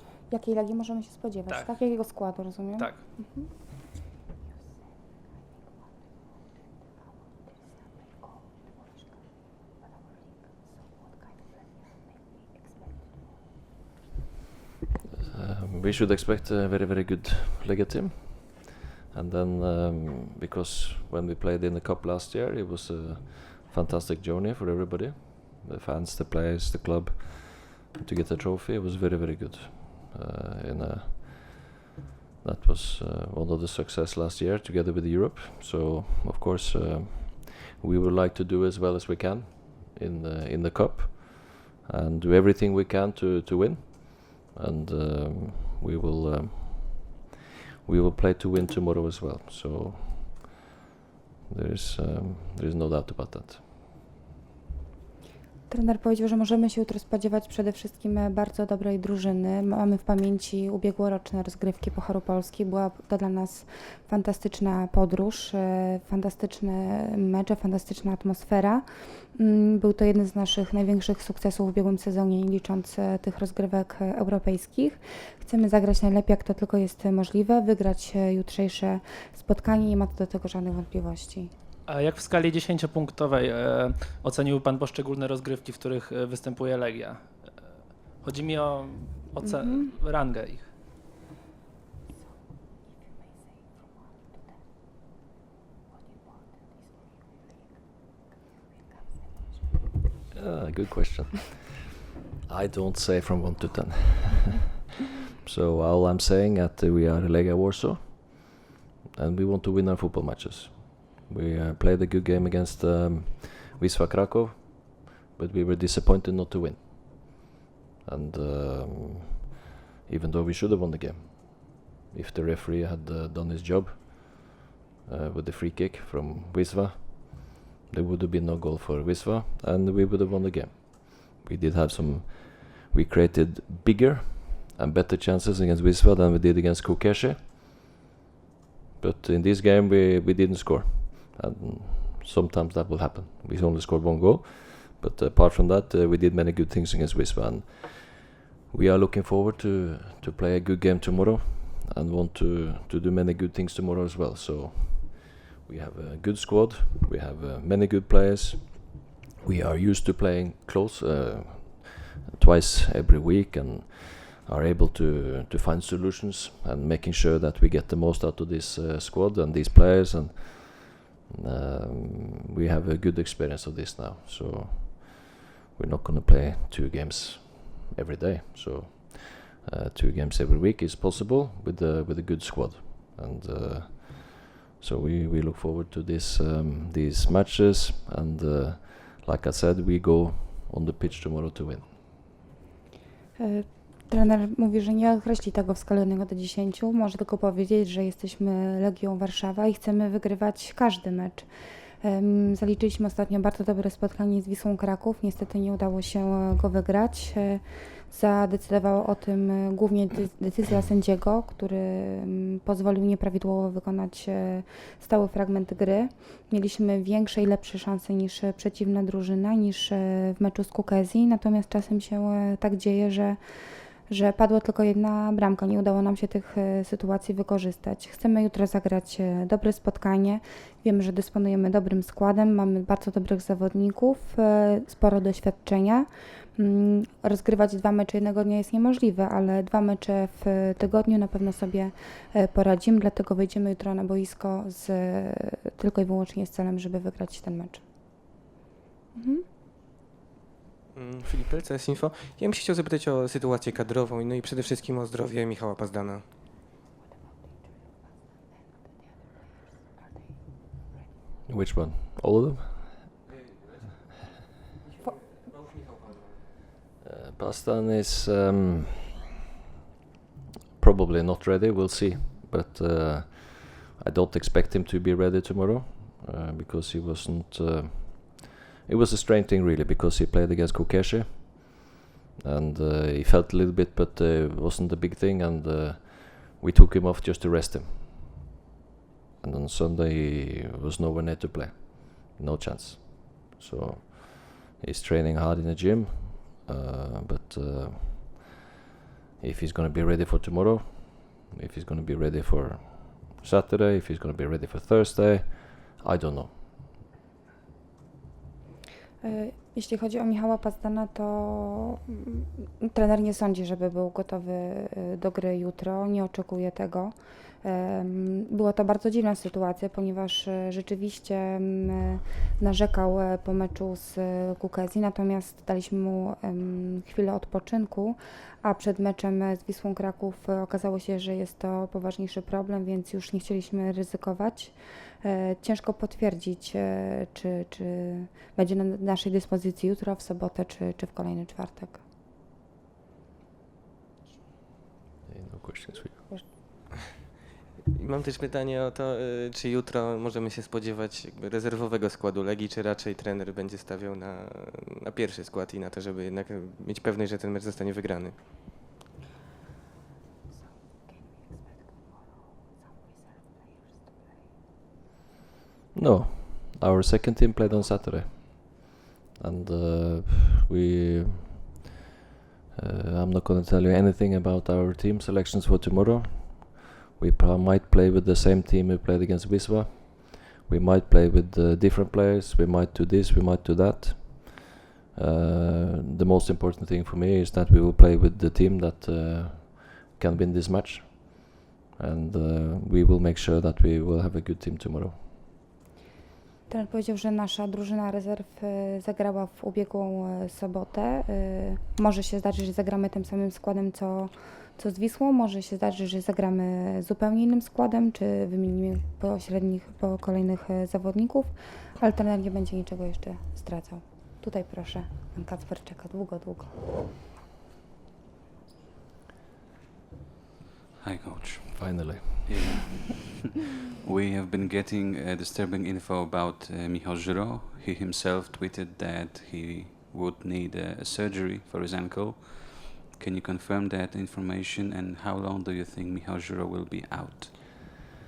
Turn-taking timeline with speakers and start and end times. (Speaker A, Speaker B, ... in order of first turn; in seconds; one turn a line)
Speaker A: 0.3-3.5
Speaker B: 1.5-1.7
Speaker B: 2.8-3.1
Speaker C: 15.2-31.8
Speaker C: 32.4-47.3
Speaker C: 47.8-50.6
Speaker C: 51.5-53.6
Speaker A: 55.7-81.5
Speaker B: 81.8-90.7
Speaker A: 89.4-89.9
Speaker C: 100.3-101.8
Speaker C: 102.4-104.7
Speaker C: 105.4-117.5
Speaker C: 118.0-119.4
Speaker C: 120.1-137.9
Speaker C: 139.0-192.0
Speaker A: 193.4-201.5
Speaker A: 202.0-223.4
Speaker A: 224.1-248.2
Speaker A: 249.1-249.4
Speaker D: 250.9-256.2
Speaker C: 261.5-263.0
Speaker C: 267.0-269.2
Speaker C: 270.8-281.9
Speaker C: 282.4-288.4
Speaker C: 289.4-298.5
Speaker C: 299.4-306.8
Speaker A: 309.2-342.0
Speaker C: 345.2-346.5
Speaker D: 347.9-358.4
Speaker C: 365.9-371.8
Speaker C: 372.7-395.1
Speaker A: 396.7-416.8
Speaker E: 421.0-423.3
Speaker C: 421.7-422.7
Speaker E: 424.0-437.6